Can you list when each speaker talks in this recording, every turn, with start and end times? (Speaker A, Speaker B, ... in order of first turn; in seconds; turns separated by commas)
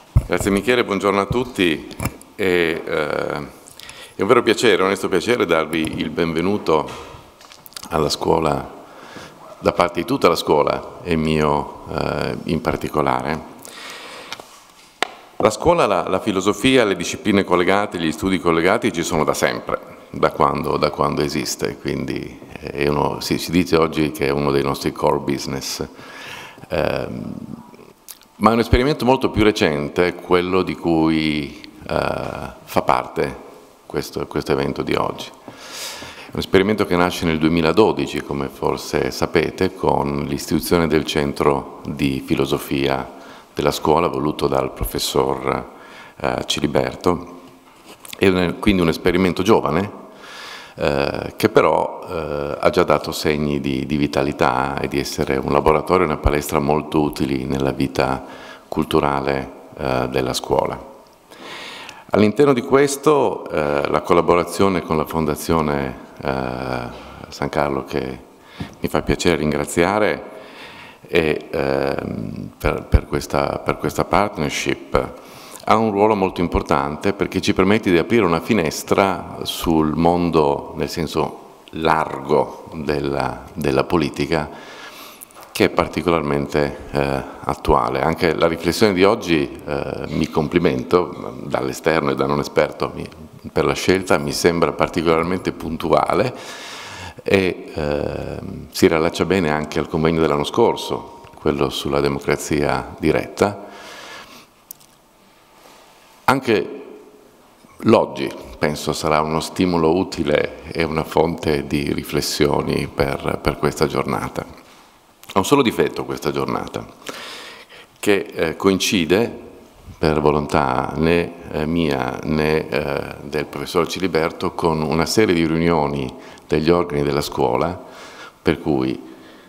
Speaker A: 0.3-3.5, Speaker A: 4.2-6.9, Speaker A: 7.9-8.7, Speaker A: 9.6-13.4, Speaker A: 15.4-25.9, Speaker A: 26.7-27.6, Speaker A: 28.4-35.3, Speaker A: 36.3-45.7, Speaker A: 46.2-47.4, Speaker A: 48.2-49.9, Speaker A: 50.8-60.8, Speaker A: 62.1-68.2, Speaker A: 68.8-70.3, Speaker A: 71.1-75.1, Speaker A: 75.7-84.5, Speaker A: 85.5-96.4, Speaker A: 97.2-103.6, Speaker A: 106.3-106.9, Speaker A: 107.8-114.4, Speaker A: 115.3-116.9, Speaker A: 118.0-119.4, Speaker A: 120.0-127.8, Speaker A: 128.4-129.0